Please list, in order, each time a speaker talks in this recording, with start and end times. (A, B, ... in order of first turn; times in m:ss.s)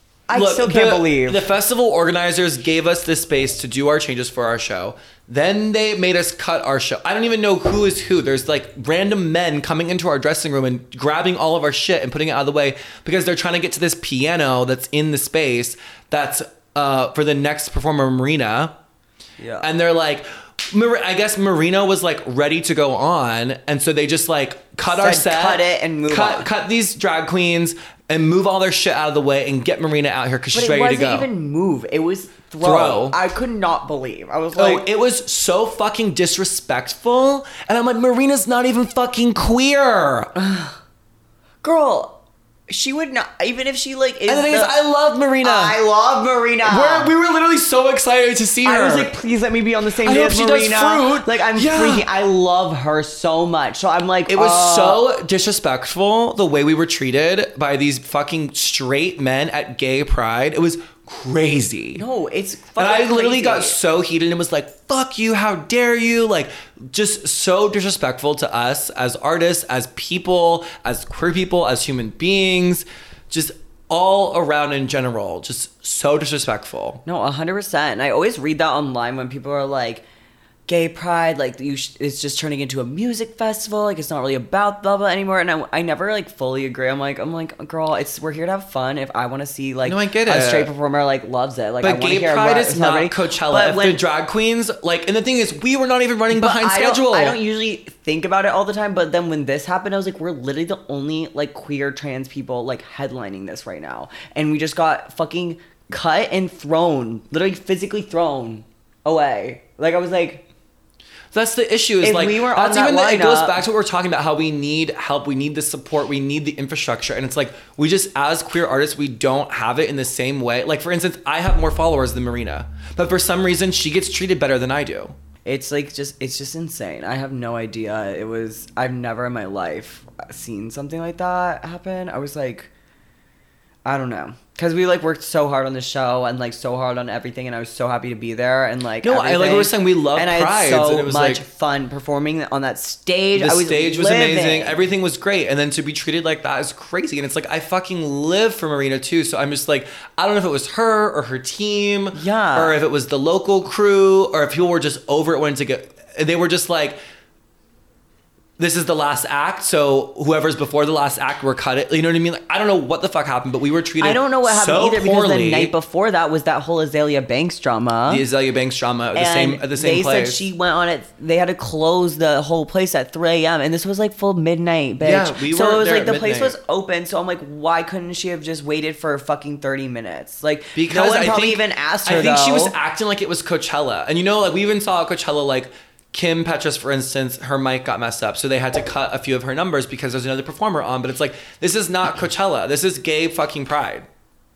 0:00.3-0:01.4 A
0:00.3-0:18.7 B
0:19.4-0:19.7 A
0:19.6-0:31.3 B
0:24.9-0:26.5 A
0:30.5-0:34.8 A
0:32.6-0:33.2 B
0:34.5-0:40.3 B
0:40.4-0:40.8 A
0:41.6-0:44.7 A
0:44.2-0:45.8 B
0:45.4-0:47.1 A
0:46.6-0:49.1 B
0:48.6-0:55.0 A
0:50.0-0:52.1 B
0:54.3-1:02.0 B
1:01.9-1:03.8 A
1:02.8-1:17.0 B
1:17.0-1:20.0 A
1:20.7-1:34.0 A
1:29.8-1:30.7 B
1:31.8-1:37.4 B
1:36.3-1:50.4 A
1:51.3-2:05.2 B
1:52.0-1:53.6 A
2:05.4-2:12.7 A
2:13.8-2:24.8 A
2:19.0-2:21.4 B
2:23.3-2:37.0 B
2:32.1-2:32.8 A
2:38.6-2:45.7 B
2:44.0-2:48.2 A
2:48.1-2:50.4 B
2:49.1-3:02.8 A
2:55.0-2:56.6 B
3:00.7-3:14.1 B